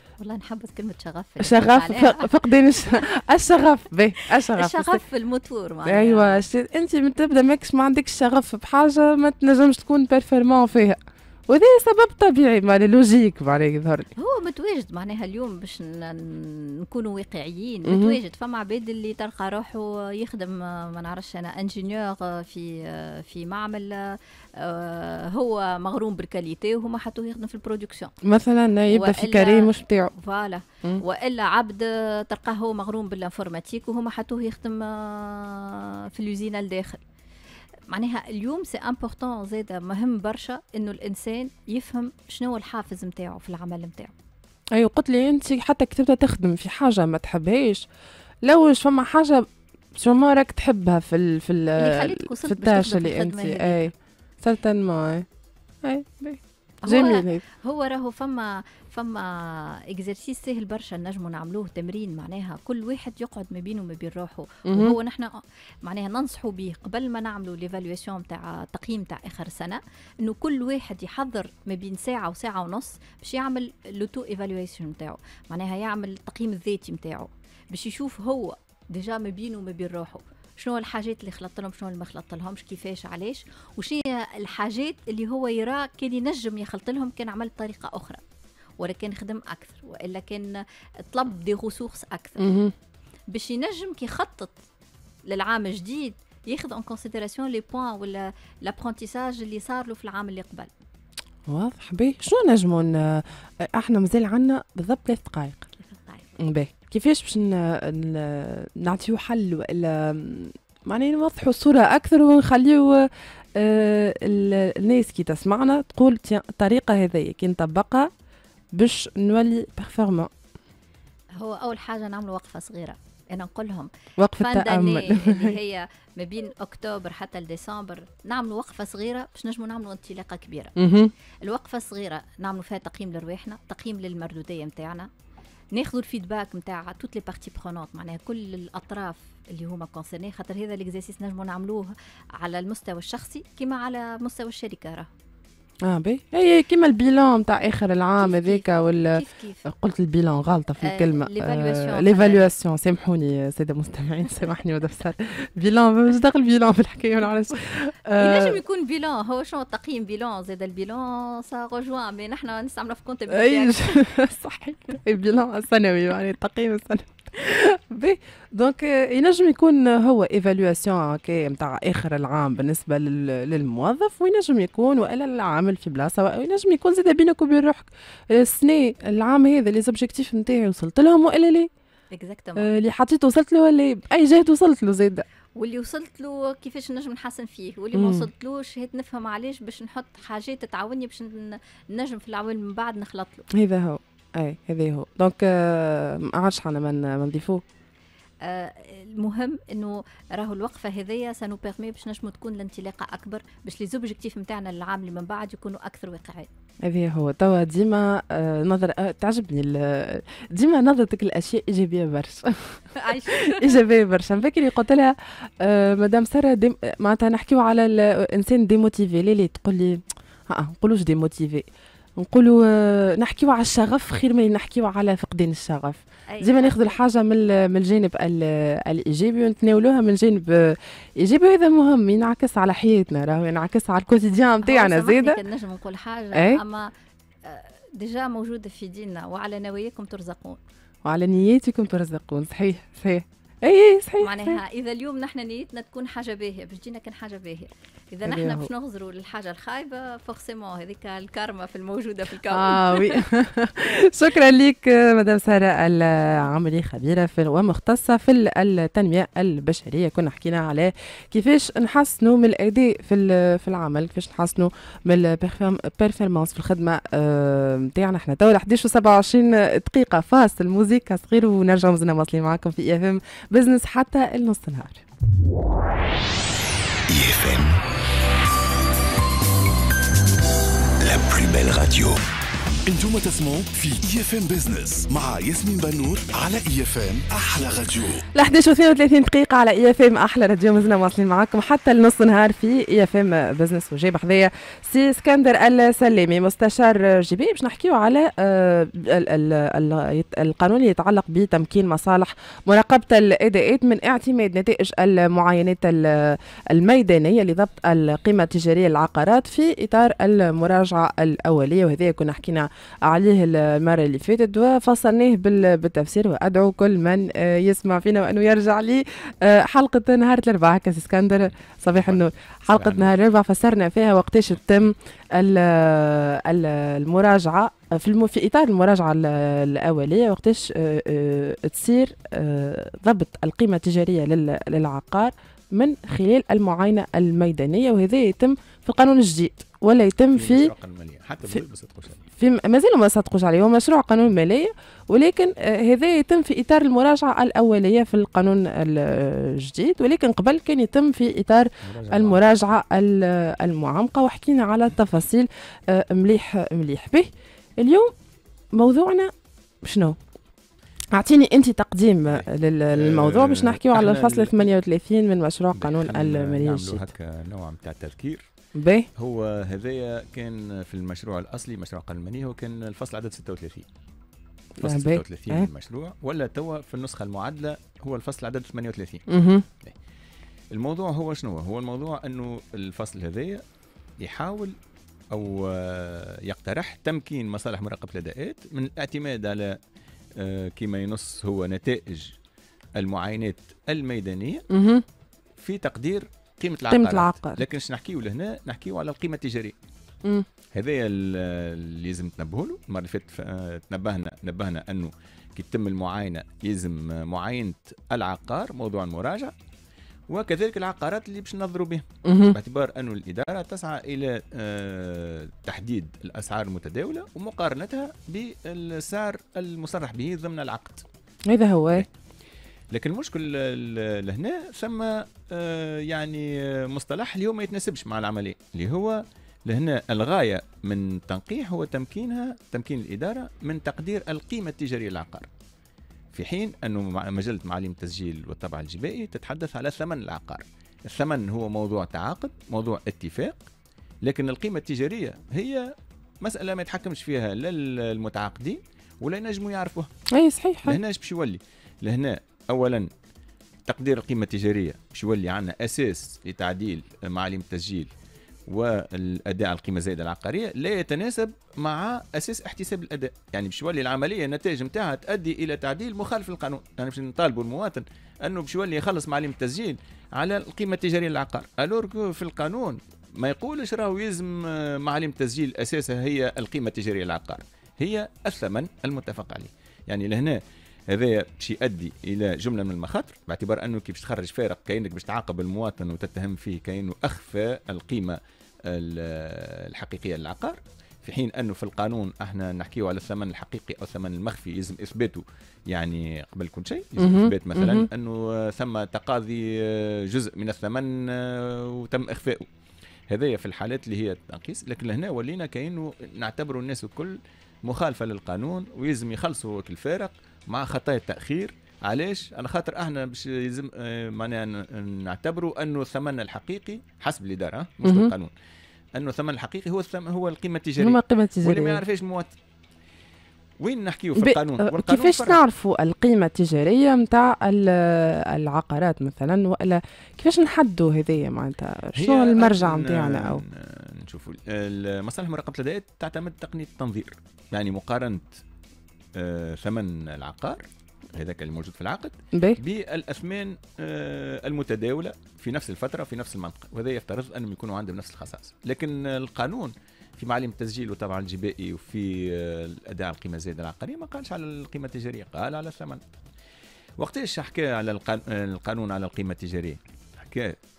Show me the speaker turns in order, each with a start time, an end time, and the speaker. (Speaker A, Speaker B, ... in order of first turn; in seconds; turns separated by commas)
Speaker A: 0.2-2.3, Speaker B: 1.4-5.0, Speaker A: 4.4-6.4, Speaker B: 5.8-14.1, Speaker A: 14.2-28.1, Speaker B: 17.9-18.2, Speaker B: 28.2-30.1, Speaker A: 28.9-37.0, Speaker A: 37.9-44.1, Speaker B: 44.7-47.9, Speaker B: 48.4-55.2, Speaker A: 51.8-53.9, Speaker B: 55.8-57.4, Speaker A: 56.8-88.2, Speaker B: 64.7-65.0, Speaker A: 88.8-92.5, Speaker B: 92.4-92.7, Speaker A: 93.3-94.6, Speaker A: 95.2-100.7, Speaker B: 101.5-105.7, Speaker A: 105.8-106.3, Speaker B: 106.4-118.1, Speaker B: 118.7-120.3, Speaker A: 121.3-130.8, Speaker B: 124.2-125.5, Speaker B: 130.8-131.1, Speaker A: 131.4-135.1, Speaker A: 135.7-145.1, Speaker B: 145.8-158.6, Speaker A: 148.2-149.6, Speaker A: 150.8-152.4, Speaker A: 158.2-164.0, Speaker B: 163.3-181.7, Speaker A: 182.1-182.7, Speaker B: 182.6-185.2, Speaker A: 185.6-193.5, Speaker B: 187.9-188.3, Speaker B: 193.5-197.6, Speaker A: 198.4-206.5, Speaker B: 206.8-235.4, Speaker A: 212.9-213.8, Speaker A: 226.3-227.0, Speaker A: 234.6-236.9, Speaker B: 236.3-236.6, Speaker A: 237.4-240.6, Speaker B: 241.0-244.6, Speaker A: 244.2-253.3, Speaker B: 248.2-248.7, Speaker B: 252.5-275.0, Speaker C: 277.1-277.8, Speaker C: 281.0-282.2, Speaker C: 282.9-288.2, Speaker B: 288.3-340.7, Speaker D: 321.9-323.1, Speaker D: 340.3-342.2, Speaker B: 342.4-358.1, Speaker D: 351.8-352.4, Speaker B: 358.7-359.3, Speaker B: 359.8-360.2, Speaker B: 361.1-367.1, Speaker D: 362.3-364.7, Speaker D: 365.7-368.4, Speaker B: 368.8-369.1, Speaker D: 369.2-373.9, Speaker B: 374.8-375.7, Speaker D: 374.8-379.2, Speaker B: 379.3-379.6, Speaker D: 380.7-383.6, Speaker D: 384.2-384.7, Speaker D: 385.3-389.8, Speaker D: 390.4-392.3, Speaker D: 393.0-394.6, Speaker B: 394.7-395.0, Speaker D: 395.6-399.7, Speaker B: 396.9-397.6, Speaker D: 400.7-409.5, Speaker D: 410.3-421.0, Speaker B: 412.2-412.6, Speaker B: 421.5-422.1, Speaker D: 422.9-435.5, Speaker D: 436.3-443.5, Speaker D: 444.2-450.1, Speaker B: 450.3-451.0, Speaker D: 450.8-453.1, Speaker D: 453.9-458.1, Speaker D: 458.7-480.6, Speaker D: 481.1-502.6, Speaker B: 497.2-498.1, Speaker D: 503.3-518.5, Speaker B: 518.0-518.3, Speaker D: 519.1-522.5, Speaker B: 521.0-522.0, Speaker D: 523.8-525.6, Speaker B: 524.4-533.6, Speaker D: 532.1-538.6, Speaker D: 539.3-540.8, Speaker D: 541.3-556.2, Speaker B: 542.5-542.8, Speaker D: 557.2-560.8